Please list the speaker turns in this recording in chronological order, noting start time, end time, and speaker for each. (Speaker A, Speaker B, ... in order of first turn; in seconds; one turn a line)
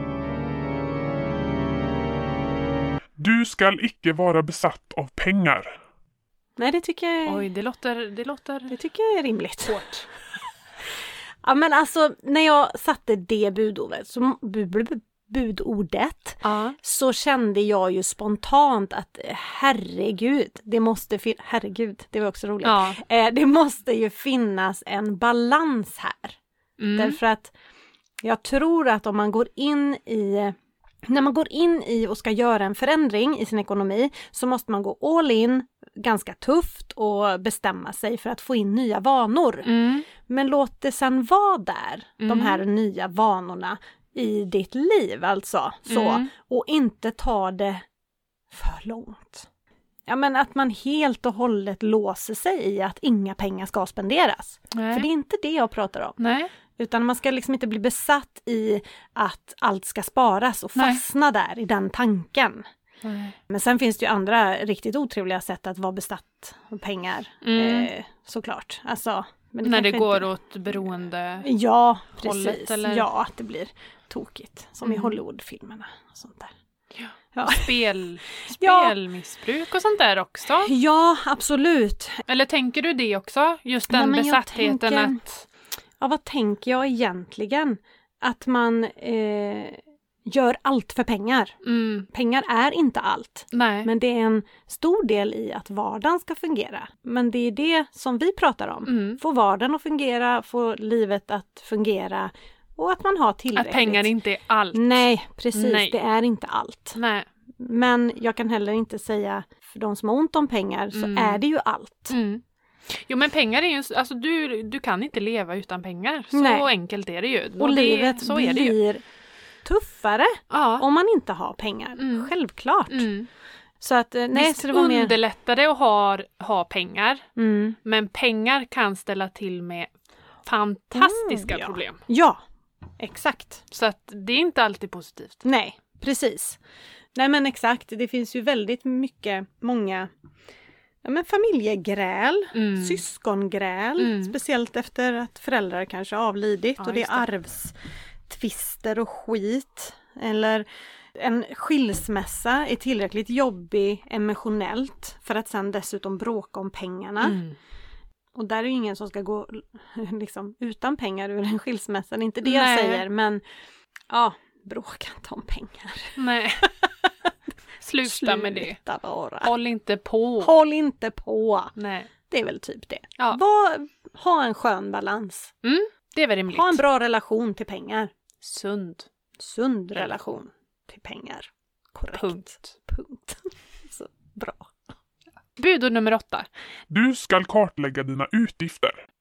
Speaker A: 3.2-5.7
Speaker B: 6.6-7.5
Speaker C: 7.3-8.8
Speaker B: 8.7-9.8
Speaker C: 9.7-10.1
Speaker B: 11.4-26.4
Speaker C: 16.4-16.8
Speaker C: 22.6-23.0
Speaker C: 26.8-27.2
Speaker B: 26.9-27.5
Speaker B: 28.2-47.9
Speaker C: 39.6-40.1
Speaker C: 42.2-42.6
Speaker C: 45.9-46.3
Speaker B: 48.5-49.5
Speaker B: 50.1-56.2
Speaker C: 54.7-55.1
Speaker C: 56.2-56.5
Speaker B: 56.8-62.6
Speaker C: 60.8-61.0
Speaker C: 63.0-63.4
Speaker B: 63.5-70.3
Speaker C: 67.4-67.9
Speaker C: 69.6-71.5
Speaker B: 71.4-76.5
Speaker C: 72.2-73.1
Speaker C: 74.8-75.2
Speaker C: 77.0-80.7
Speaker B: 77.3-77.8
Speaker B: 78.5-79.0
Speaker B: 80.6-82.2
Speaker C: 82.3-85.4
Speaker B: 83.9-85.2
Speaker B: 86.0-91.6
Speaker C: 91.6-92.1
Speaker B: 92.1-104.1
Speaker C: 93.5-93.9
Speaker C: 98.9-99.2
Speaker C: 103.5-105.9
Speaker B: 104.7-107.0
Speaker C: 107.0-107.3
Speaker B: 107.6-112.2
Speaker C: 110.9-111.4
Speaker C: 112.1-118.8
Speaker B: 116.3-116.7
Speaker B: 117.6-119.0
Speaker B: 119.7-123.1
Speaker C: 120.5-120.8
Speaker C: 122.0-122.3
Speaker C: 122.9-123.3
Speaker B: 123.8-125.2
Speaker C: 124.3-127.3
Speaker B: 127.4-127.8
Speaker C: 127.8-129.9
Speaker C: 130.4-132.0
Speaker B: 130.9-132.4
Speaker B: 133.0-133.6
Speaker C: 133.7-135.4
Speaker B: 135.4-136.6
Speaker B: 137.2-140.1
Speaker B: 141.0-147.7
Speaker C: 142.5-143.0
Speaker C: 144.0-144.3
Speaker C: 146.8-147.3
Speaker B: 148.3-157.4
Speaker C: 157.2-157.6
Speaker B: 158.3-163.4
Speaker C: 162.4-163.1
Speaker B: 164.1-166.8
Speaker C: 166.2-166.7
Speaker C: 167.8-168.8
Speaker B: 168.0-169.5
Speaker C: 169.4-170.5
Speaker B: 170.4-171.8
Speaker C: 171.8-172.1
Speaker B: 172.3-175.5
Speaker C: 175.6-176.8
Speaker B: 176.5-178.1
Speaker C: 178.4-179.1
Speaker B: 179.4-184.7
Speaker C: 182.1-182.8
Speaker C: 185.6-186.5
Speaker A: 186.9-189.0